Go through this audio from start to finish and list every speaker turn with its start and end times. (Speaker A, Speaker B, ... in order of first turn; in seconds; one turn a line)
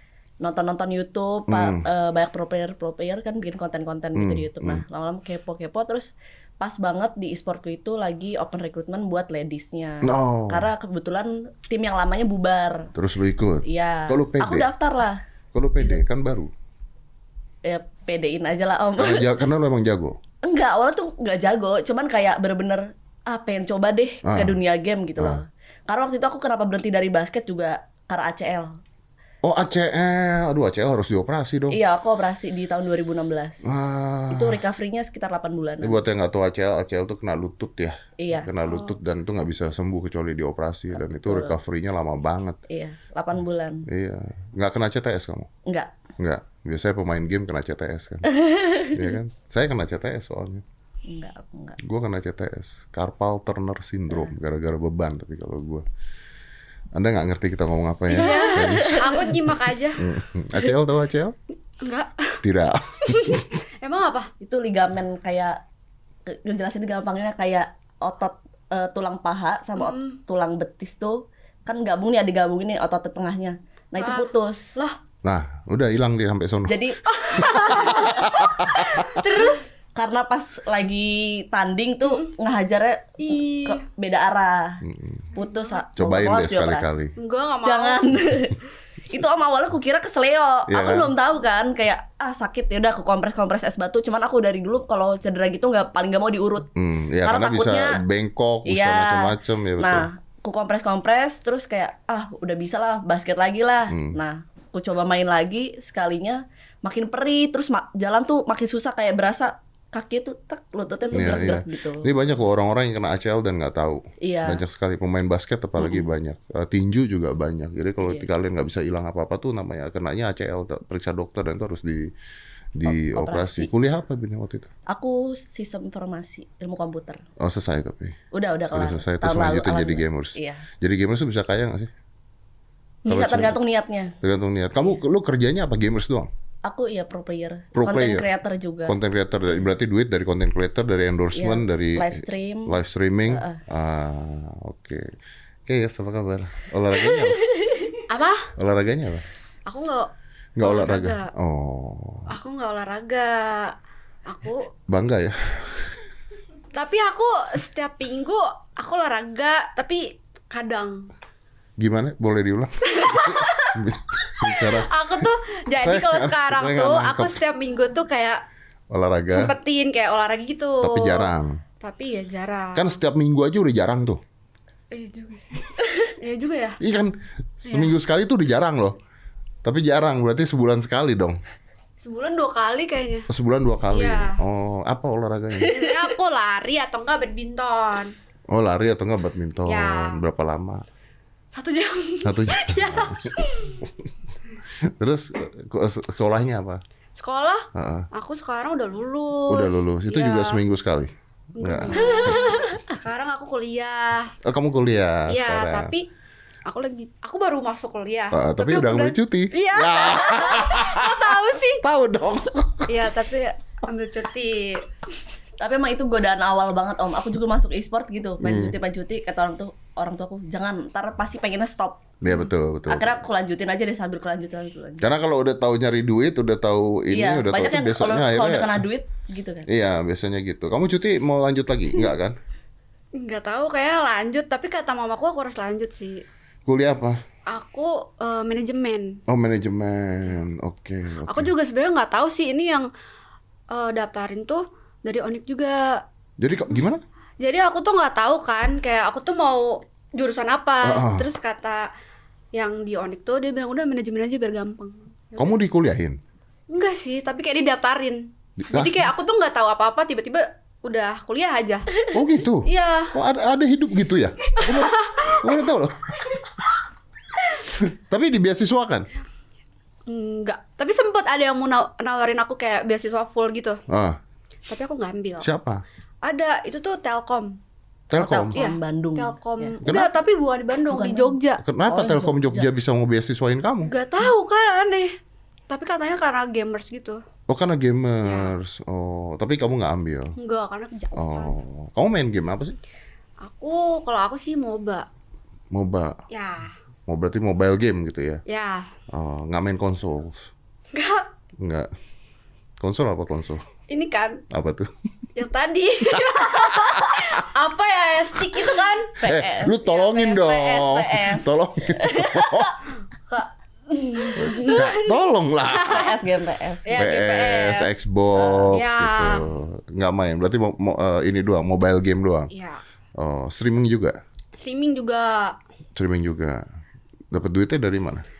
Speaker A: 0.4-12.9
Speaker B: 1.5-1.9
Speaker B: 4.1-4.8
Speaker B: 10.0-10.7
Speaker B: 12.9-14.7
Speaker A: 13.7-15.2
Speaker B: 15.5-16.5
Speaker A: 17.6-19.3
Speaker B: 19.0-20.2
Speaker A: 20.4-28.7
Speaker B: 24.2-24.6
Speaker B: 29.4-31.8
Speaker A: 31.7-33.7
Speaker B: 33.6-34.6
Speaker A: 34.3-36.0
Speaker B: 35.8-42.6
Speaker A: 38.2-38.5
Speaker C: 38.6-39.0
Speaker A: 41.0-41.5
Speaker A: 42.7-43.9
Speaker B: 43.9-45.5
Speaker A: 45.6-45.9
Speaker B: 46.2-48.3
Speaker A: 48.3-49.0
Speaker B: 48.9-50.6
Speaker A: 51.0-51.8
Speaker B: 51.8-55.9
Speaker B: 56.9-59.0
Speaker C: 58.1-60.0
Speaker A: 58.3-59.2
Speaker B: 60.0-61.4
Speaker C: 61.8-62.4
Speaker B: 62.4-63.6
Speaker C: 63.0-64.3
Speaker A: 64.4-65.6
Speaker A: 66.3-74.7
Speaker C: 69.8-70.2
Speaker C: 74.0-75.0
Speaker B: 75.2-76.8
Speaker A: 76.7-78.3
Speaker C: 77.0-79.7
Speaker B: 77.4-79.2
Speaker A: 80.0-84.8
Speaker C: 82.0-82.3
Speaker C: 83.2-83.8
Speaker B: 84.8-85.3
Speaker A: 85.3-86.8
Speaker C: 85.4-85.8
Speaker B: 86.0-87.1
Speaker C: 87.2-88.0
Speaker A: 87.6-88.6
Speaker A: 89.1-96.7
Speaker B: 90.7-91.1
Speaker B: 96.8-100.1
Speaker A: 97.2-98.0
Speaker A: 98.7-112.0
Speaker B: 103.9-104.2
Speaker B: 111.1-122.1
Speaker A: 114.2-114.6
Speaker A: 118.0-118.3
Speaker B: 122.7-124.7
Speaker A: 122.9-123.7
Speaker A: 124.9-127.2
Speaker B: 127.4-128.2
Speaker A: 128.3-130.7
Speaker B: 128.7-131.9
Speaker B: 133.1-133.6
Speaker A: 133.1-134.1
Speaker B: 134.2-136.3
Speaker A: 136.6-138.9
Speaker B: 137.7-138.3
Speaker B: 138.9-145.1
Speaker A: 141.3-142.7
Speaker A: 143.3-143.6
Speaker B: 145.7-147.4
Speaker A: 147.2-147.9
Speaker C: 148.1-148.5
Speaker B: 148.5-149.2
Speaker C: 149.7-150.1
Speaker B: 150.6-152.3
Speaker C: 150.6-151.3
Speaker C: 152.3-153.7
Speaker C: 154.2-154.7
Speaker B: 154.9-156.0
Speaker C: 156.7-161.1
Speaker B: 161.8-164.9
Speaker C: 162.9-163.7
Speaker C: 164.5-168.4
Speaker B: 165.8-167.4
Speaker B: 168.9-169.5
Speaker C: 169.3-172.9
Speaker B: 170.8-171.6
Speaker B: 172.7-174.2
Speaker C: 174.9-176.8
Speaker B: 176.8-179.0
Speaker C: 177.7-177.9
Speaker B: 179.6-181.4
Speaker C: 182.0-183.3
Speaker B: 183.3-185.8
Speaker C: 183.9-184.4
Speaker C: 185.7-188.1
Speaker B: 188.5-190.8
Speaker C: 189.7-190.2
Speaker C: 191.5-193.8
Speaker B: 192.2-194.1
Speaker B: 194.8-196.8
Speaker C: 197.2-200.6
Speaker B: 197.7-198.1
Speaker B: 199.5-202.6
Speaker C: 201.6-204.3
Speaker B: 204.4-205.9
Speaker C: 205.3-206.1
Speaker C: 206.7-211.8
Speaker B: 208.3-212.9
Speaker C: 212.9-214.8
Speaker A: 215.6-222.0
Speaker B: 218.4-218.8
Speaker B: 222.2-223.2
Speaker A: 222.9-225.1
Speaker B: 225.0-228.8
Speaker A: 227.1-229.7
Speaker B: 229.7-232.4
Speaker C: 233.2-236.2
Speaker B: 236.7-237.2
Speaker C: 237.5-239.2
Speaker B: 239.3-241.5
Speaker C: 241.3-242.9
Speaker C: 243.7-246.0
Speaker B: 246.4-247.0
Speaker C: 247.4-251.9
Speaker B: 250.8-251.3
Speaker C: 252.5-255.6
Speaker B: 255.4-256.2
Speaker C: 256.7-262.0
Speaker B: 258.6-259.1
Speaker B: 262.1-266.1
Speaker C: 262.6-263.1
Speaker C: 264.5-265.5
Speaker B: 267.8-269.1
Speaker C: 270.1-273.8
Speaker B: 273.9-274.2
Speaker C: 274.7-275.5
Speaker B: 275.4-275.8
Speaker C: 276.2-277.6
Speaker B: 278.1-278.6
Speaker A: 278.1-279.8
Speaker C: 278.5-281.6
Speaker B: 279.8-280.1
Speaker A: 280.9-282.7
Speaker B: 281.6-283.9
Speaker C: 283.9-285.1
Speaker C: 285.7-287.2
Speaker B: 287.5-290.3
Speaker C: 288.2-288.5
Speaker C: 290.4-291.6
Speaker B: 291.2-292.8
Speaker C: 293.4-295.1
Speaker B: 295.7-296.2
Speaker C: 296.3-296.7
Speaker B: 297.1-298.4
Speaker C: 298.4-298.9
Speaker B: 299.1-300.5
Speaker C: 300.9-301.3
Speaker B: 301.6-301.9
Speaker B: 302.8-303.6
Speaker C: 303.9-304.4
Speaker B: 304.5-304.9
Speaker C: 305.4-309.2
Speaker B: 306.1-307.4
Speaker A: 309.2-309.9
Speaker B: 309.2-312.8
Speaker C: 309.8-310.9
Speaker A: 310.7-312.7
Speaker C: 313.3-314.9
Speaker A: 314.4-315.1
Speaker B: 314.6-316.1
Speaker C: 315.7-316.1
Speaker A: 315.8-317.0
Speaker C: 316.8-318.0
Speaker B: 316.9-322.5
Speaker A: 318.3-318.8
Speaker C: 318.7-319.4
Speaker C: 322.5-322.8
Speaker B: 323.2-324.2
Speaker C: 324.6-325.6
Speaker B: 325.9-326.6
Speaker B: 327.3-328.2